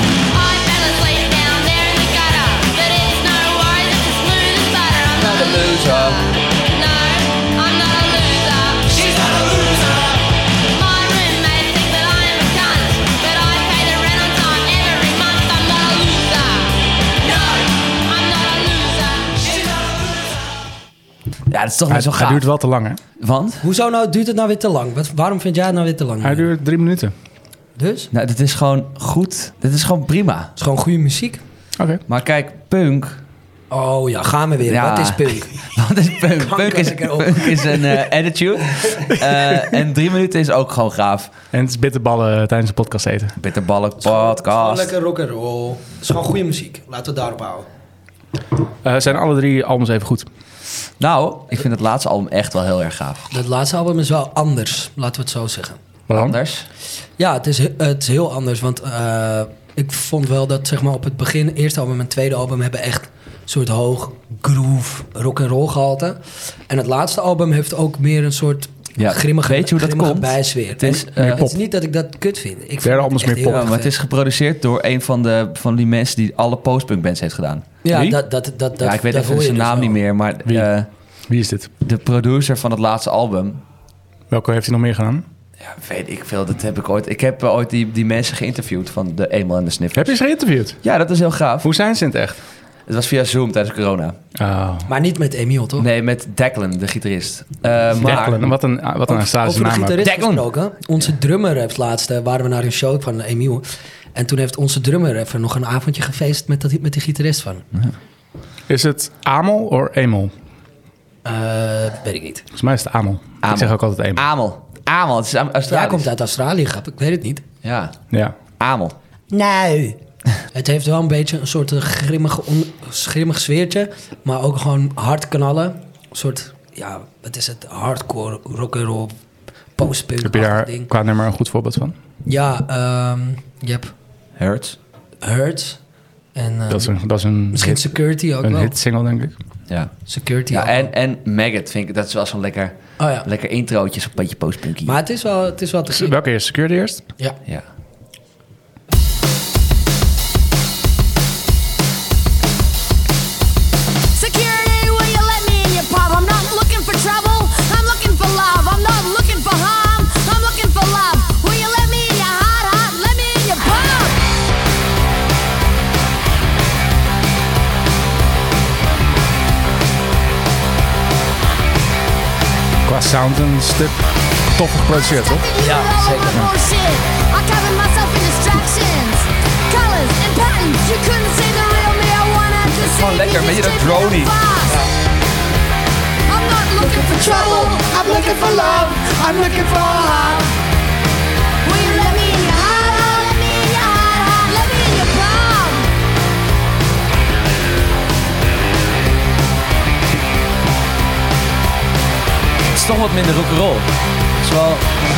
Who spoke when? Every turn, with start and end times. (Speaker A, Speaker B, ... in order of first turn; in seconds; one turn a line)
Speaker A: 0.3-19.8
Speaker B: 5.2-6.2
Speaker B: 21.5-22.5
Speaker C: 21.9-23.0
Speaker B: 23.2-23.6
Speaker D: 23.6-26.5
Speaker C: 26.2-27.1
Speaker D: 27.8-28.1
Speaker B: 28.1-30.5
Speaker D: 30.6-31.4
Speaker B: 32.0-33.2
Speaker D: 33.7-35.5
Speaker B: 34.6-41.3
Speaker D: 36.3-37.9
Speaker C: 41.5-43.3
Speaker B: 43.4-44.9
Speaker D: 44.0-47.7
Speaker C: 48.8-50.3
Speaker B: 51.0-53.3
Speaker D: 53.3-55.8
Speaker C: 56.1-56.4
Speaker B: 56.1-56.7
Speaker D: 57.2-73.9
Speaker B: 69.0-71.5
Speaker C: 71.2-71.5
Speaker C: 72.8-73.7
Speaker B: 73.4-77.7
Speaker D: 77.8-80.0
Speaker C: 77.9-78.2
Speaker B: 78.8-80.9
Speaker C: 81.3-81.7
Speaker B: 81.8-83.6
Speaker C: 84.3-85.2
Speaker B: 85.6-90.1
Speaker C: 89.9-90.8
Speaker B: 90.8-91.7
Speaker C: 91.6-92.4
Speaker B: 92.9-94.2
Speaker C: 94.4-94.9
Speaker D: 94.9-95.9
Speaker B: 95.8-98.5
Speaker C: 97.9-100.0
Speaker D: 99.1-103.6
Speaker B: 100.0-100.5
Speaker D: 104.1-107.7
Speaker C: 108.7-110.3
Speaker D: 111.2-112.4
Speaker C: 112.5-114.2
Speaker B: 113.4-116.1
Speaker D: 115.7-117.4
Speaker B: 117.6-117.9
Speaker C: 118.1-118.4
Speaker B: 118.6-118.9
Speaker D: 119.3-120.0
Speaker D: 120.5-129.1
Speaker D: 129.8-130.9
Speaker C: 130.2-131.9
Speaker D: 132.2-133.9
Speaker B: 134.4-134.8
Speaker D: 135.2-135.8
Speaker D: 136.3-136.9
Speaker C: 136.7-139.3
Speaker D: 137.5-138.7
Speaker D: 140.1-140.9
Speaker B: 140.5-145.0
Speaker D: 143.0-143.3
Speaker D: 144.8-146.2
Speaker C: 145.9-147.0
Speaker A: 154.1-164.2
Speaker C: 172.8-174.0
Speaker C: 174.5-175.4
Speaker A: 174.9-184.8
Speaker D: 175.6-176.0
Speaker B: 175.8-176.5
Speaker B: 182.8-184.3
Speaker A: 186.3-190.4
Speaker D: 186.8-190.5
Speaker A: 191.6-195.9
Speaker B: 202.7-204.8